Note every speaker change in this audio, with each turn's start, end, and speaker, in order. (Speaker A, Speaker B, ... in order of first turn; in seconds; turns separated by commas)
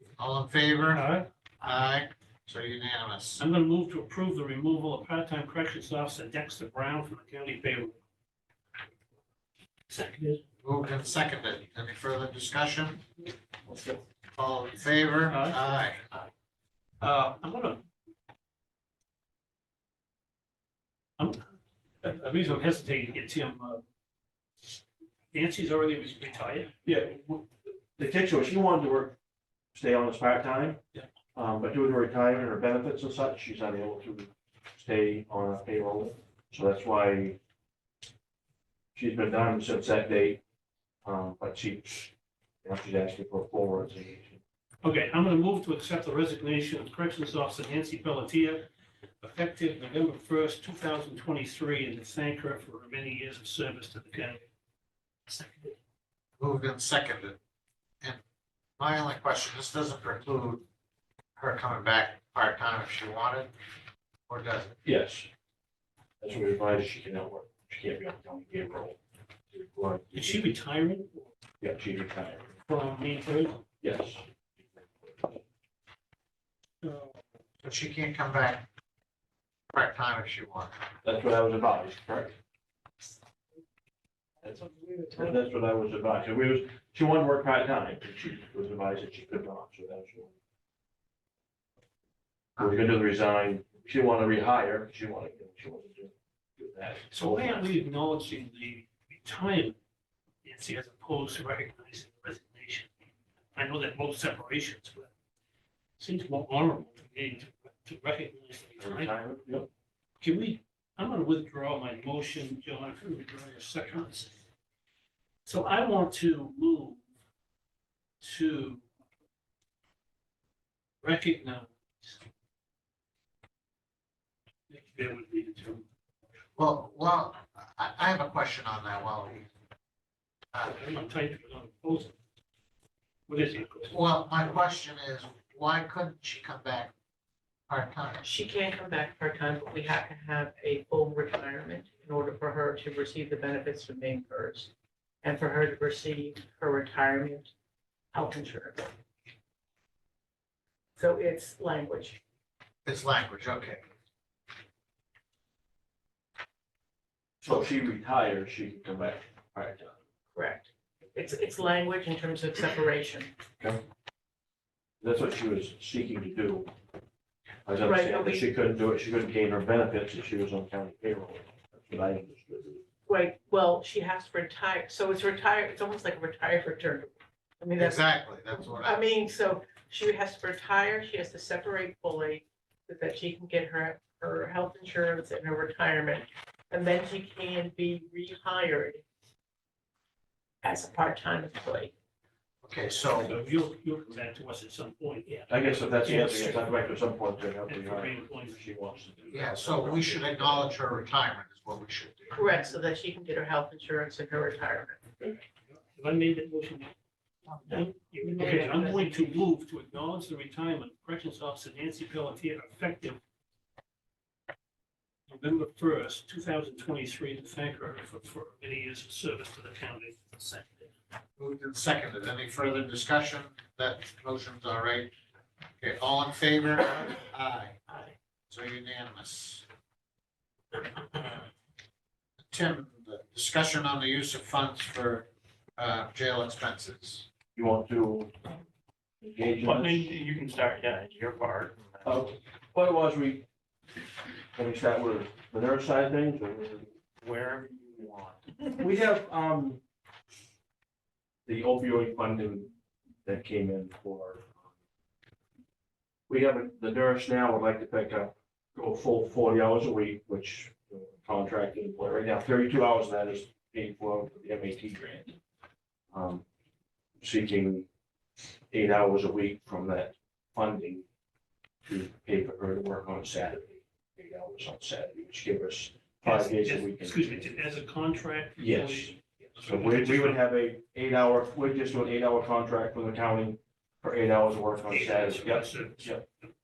Speaker A: 0.2-1.1, Speaker B: 0.9-1.3, Speaker A: 1.6-3.4, Speaker B: 3.4-8.0, Speaker B: 9.9-10.4, Speaker A: 10.6-13.0, Speaker A: 14.3-16.0, Speaker B: 15.3-16.3, Speaker B: 17.0-17.9, Speaker B: 21.2-23.8, Speaker B: 25.3-26.7, Speaker C: 26.8-29.2, Speaker C: 29.8-30.8, Speaker C: 31.4-37.4, Speaker C: 39.0-40.4, Speaker C: 41.0-42.1, Speaker C: 42.6-44.4, Speaker B: 44.8-48.7, Speaker B: 49.2-54.4, Speaker A: 56.4-57.4, Speaker A: 58.8-60.6, Speaker A: 61.4-63.5, Speaker A: 64.3-64.8, Speaker C: 64.8-65.3, Speaker C: 66.2-69.0, Speaker C: 69.5-70.4, Speaker B: 70.1-71.3, Speaker C: 71.6-72.5, Speaker B: 72.7-73.7, Speaker C: 73.8-75.4, Speaker B: 76.8-77.1, Speaker A: 77.6-78.7, Speaker A: 79.7-80.7, Speaker C: 81.0-82.4, Speaker D: 84.4-85.4, Speaker C: 85.2-90.3, Speaker C: 92.6-97.7, Speaker B: 97.1-99.8, Speaker B: 100.4-102.9, Speaker B: 103.5-105.1, Speaker B: 106.0-109.2, Speaker C: 108.8-109.7, Speaker B: 110.2-114.4, Speaker B: 115.5-117.0, Speaker B: 118.2-118.8, Speaker B: 121.0-122.2, Speaker B: 124.7-125.8, Speaker A: 126.6-129.5, Speaker B: 130.6-132.1, Speaker B: 133.3-133.9, Speaker A: 133.9-136.9, Speaker A: 137.7-138.2, Speaker D: 138.2-144.7, Speaker D: 145.2-147.5, Speaker D: 148.1-148.9, Speaker D: 151.0-152.2, Speaker A: 152.8-153.9, Speaker C: 157.4-159.9, Speaker D: 160.3-163.3, Speaker C: 165.0-166.7, Speaker C: 167.7-172.8, Speaker D: 167.8-168.5, Speaker D: 173.1-189.0, Speaker A: 177.8-179.0, Speaker D: 190.6-191.9, Speaker A: 192.6-193.4, Speaker B: 193.2-196.7, Speaker C: 195.5-200.5, Speaker B: 197.7-198.6, Speaker A: 199.3-202.5, Speaker D: 202.3-205.0, Speaker B: 205.2-206.9, Speaker B: 207.7-213.2, Speaker E: 208.3-208.8, Speaker D: 208.4-209.3, Speaker B: 215.3-220.9, Speaker A: 221.4-225.1, Speaker A: 225.8-227.9, Speaker A: 228.5-229.7, Speaker A: 231.1-231.4, Speaker A: 232.5-237.3, Speaker C: 237.6-238.5, Speaker C: 239.2-240.1, Speaker E: 239.6-242.0, Speaker C: 242.0-243.4, Speaker C: 244.5-246.9, Speaker E: 247.2-248.7, Speaker C: 248.8-249.8, Speaker C: 251.5-252.7, Speaker C: 253.2-254.6, Speaker C: 256.3-265.4, Speaker C: 266.1-266.4, Speaker C: 267.2-267.9, Speaker C: 268.7-271.0, Speaker C: 271.9-277.5, Speaker B: 276.2-280.4, Speaker C: 278.6-286.2, Speaker B: 284.9-286.2